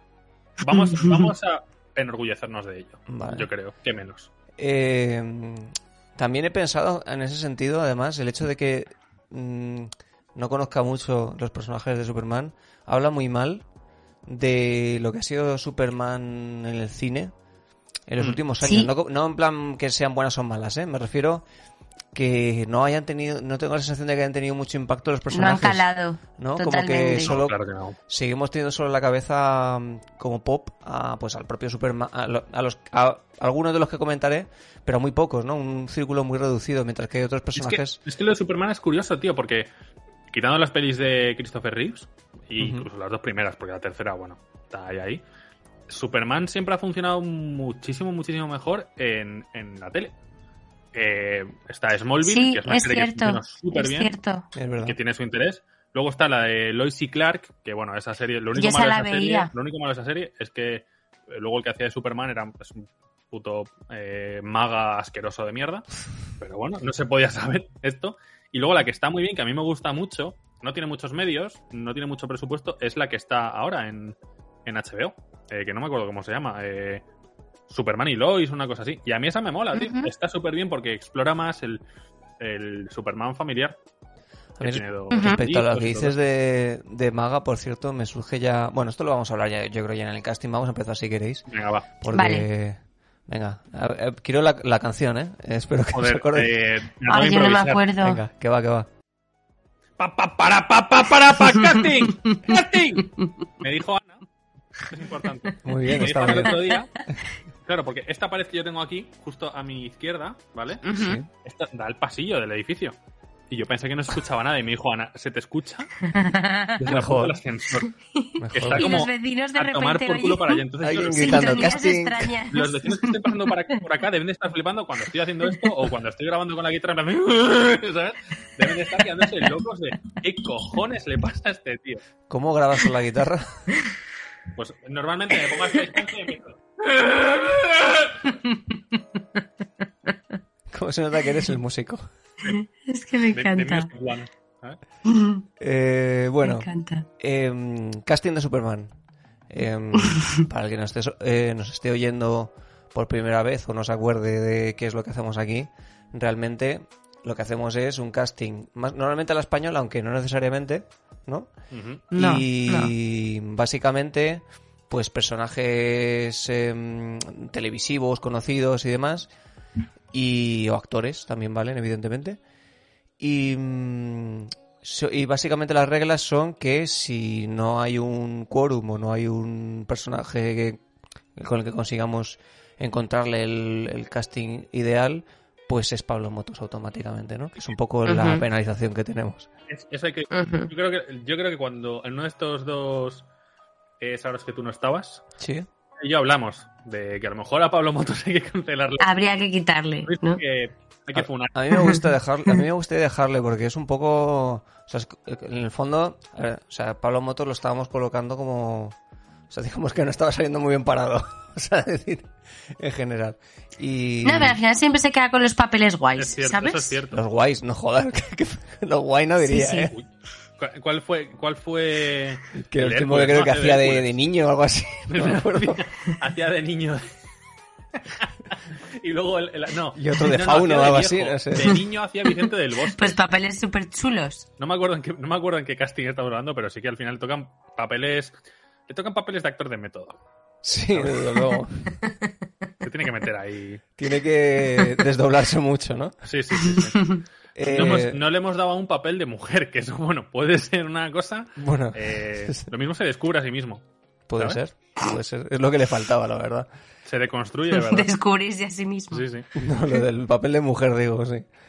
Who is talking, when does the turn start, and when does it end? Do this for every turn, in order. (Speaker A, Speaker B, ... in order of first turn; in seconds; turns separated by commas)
Speaker A: 0.6-4.3, Speaker B: 0.7-1.3, Speaker C: 3.1-3.5, Speaker C: 4.6-13.7, Speaker C: 14.3-17.3, Speaker C: 18.1-21.4, Speaker B: 18.6-18.9, Speaker C: 22.1-25.9, Speaker B: 25.3-27.3, Speaker C: 26.4-27.6, Speaker A: 27.2-28.0, Speaker C: 28.1-38.0, Speaker A: 37.6-39.7, Speaker A: 40.3-45.2, Speaker C: 42.6-42.9, Speaker A: 45.9-50.1, Speaker A: 50.9-54.1, Speaker B: 52.2-54.5, Speaker C: 54.5-55.0, Speaker A: 54.8-65.9, Speaker B: 58.6-59.5, Speaker A: 66.4-77.0, Speaker A: 77.7-81.8, Speaker B: 79.7-80.1, Speaker A: 82.4-83.8, Speaker C: 84.6-91.5, Speaker A: 84.6-86.2, Speaker B: 85.1-85.4, Speaker A: 91.5-91.9, Speaker C: 92.0-96.5, Speaker B: 92.1-92.5, Speaker A: 95.9-97.9, Speaker B: 97.1-98.2, Speaker C: 98.0-98.9, Speaker A: 100.0-104.2, Speaker B: 101.4-103.3, Speaker A: 104.8-106.9, Speaker C: 105.6-106.6, Speaker B: 105.9-106.8, Speaker A: 107.7-113.0, Speaker B: 110.8-111.2, Speaker C: 110.9-111.3, Speaker A: 113.5-115.9, Speaker B: 116.0-116.8, Speaker A: 116.8-117.9, Speaker C: 116.9-117.4, Speaker B: 117.9-123.8, Speaker C: 118.4-118.9, Speaker A: 118.5-121.8, Speaker C: 120.8-122.3, Speaker A: 122.5-132.0, Speaker C: 132.3-133.7, Speaker A: 134.5-138.3, Speaker B: 138.3-139.4, Speaker C: 140.7-142.1, Speaker B: 142.4-143.9, Speaker A: 143.3-144.8, Speaker B: 145.1-145.4, Speaker C: 145.6-148.9, Speaker B: 146.4-147.1, Speaker C: 149.5-161.5, Speaker B: 150.1-150.4, Speaker A: 161.7-162.0, Speaker B: 162.1-162.9, Speaker C: 162.1-169.3, Speaker C: 170.1-172.4, Speaker C: 173.2-180.8, Speaker C: 181.4-189.5, Speaker B: 188.1-188.4, Speaker A: 189.7-193.3, Speaker B: 190.3-190.7, Speaker A: 194.0-195.2, Speaker C: 195.4-195.7, Speaker A: 196.0-199.1, Speaker B: 199.0-200.4, Speaker A: 200.1-201.6, Speaker C: 201.1-209.0, Speaker B: 201.7-202.0, Speaker C: 209.5-214.6, Speaker B: 214.2-217.0, Speaker A: 216.2-217.2, Speaker C: 217.1-219.9, Speaker B: 219.4-219.9, Speaker A: 220.6-224.1, Speaker C: 222.6-225.8, Speaker A: 225.1-227.1, Speaker A: 228.0-233.1, Speaker C: 229.9-231.8, Speaker B: 232.9-234.5, Speaker A: 234.6-238.4, Speaker A: 238.9-240.2, Speaker C: 240.6-241.9, Speaker A: 240.9-241.2, Speaker B: 242.0-242.3, Speaker A: 242.8-243.8, Speaker C: 244.0-246.2, Speaker A: 246.2-253.8, Speaker B: 246.9-247.2, Speaker C: 247.6-248.2, Speaker C: 251.6-252.6, Speaker C: 254.3-256.7, Speaker A: 257.1-258.1, Speaker B: 257.7-259.3, Speaker A: 259.1-259.5, Speaker C: 259.6-261.5